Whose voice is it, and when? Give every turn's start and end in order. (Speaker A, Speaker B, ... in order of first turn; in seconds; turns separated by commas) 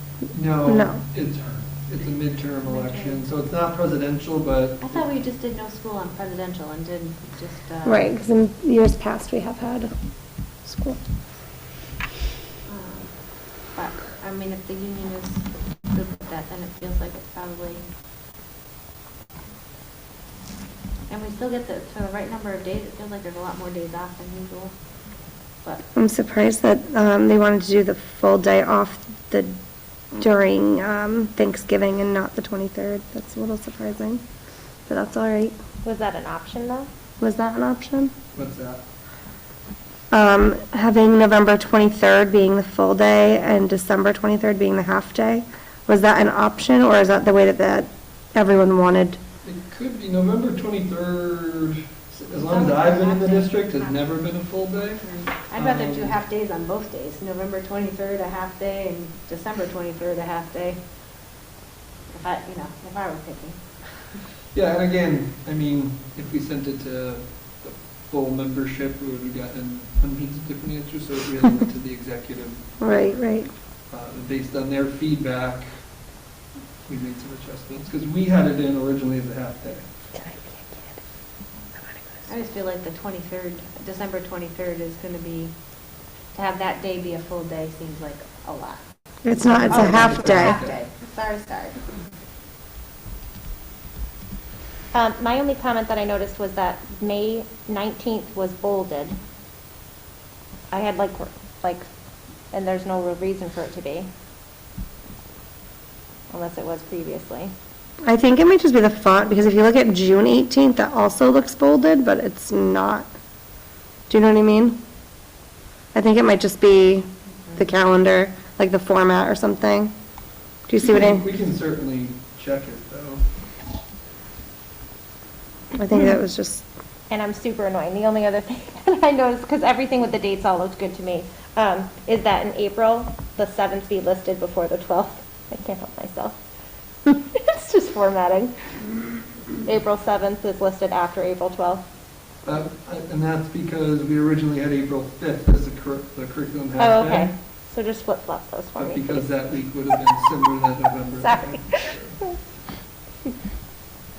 Speaker A: 0.3-5.1, Speaker B: 0.7-1.0, Speaker C: 2.6-3.2, Speaker C: 4.8-8.1, Speaker B: 7.8-9.9, Speaker B: 10.7-11.0, Speaker C: 12.7-13.1, Speaker C: 13.7-17.9, Speaker C: 21.1-24.7, Speaker B: 25.9-29.6, Speaker B: 30.1-34.2, Speaker B: 34.9-35.5, Speaker D: 35.8-36.9, Speaker B: 37.2-38.1, Speaker A: 38.4-38.8, Speaker B: 40.1-49.2, Speaker A: 49.4-56.2, Speaker C: 52.3-54.2, Speaker C: 55.0-60.8, Speaker C: 62.1-64.2, Speaker A: 64.5-72.7, Speaker B: 72.8-73.5, Speaker A: 73.9-75.7, Speaker A: 76.9-79.9, Speaker D: 80.2-80.5, Speaker C: 82.3-85.5, Speaker C: 86.3-88.8, Speaker B: 89.2-90.6, Speaker A: 89.5-90.8, Speaker C: 89.6-91.8, Speaker D: 94.9-99.2, Speaker D: 100.7-101.9, Speaker D: 102.5-104.1, Speaker D: 106.3-107.5, Speaker B: 108.0-113.1, Speaker B: 114.1-114.8, Speaker B: 115.9-119.9, Speaker B: 120.7-121.3, Speaker A: 120.8-123.2, Speaker B: 125.8-126.6, Speaker D: 127.1-136.4, Speaker D: 137.1-138.6, Speaker D: 139.7-141.8, Speaker A: 142.4-147.3, Speaker D: 146.8-149.3, Speaker A: 148.8-152.2, Speaker D: 151.1-152.4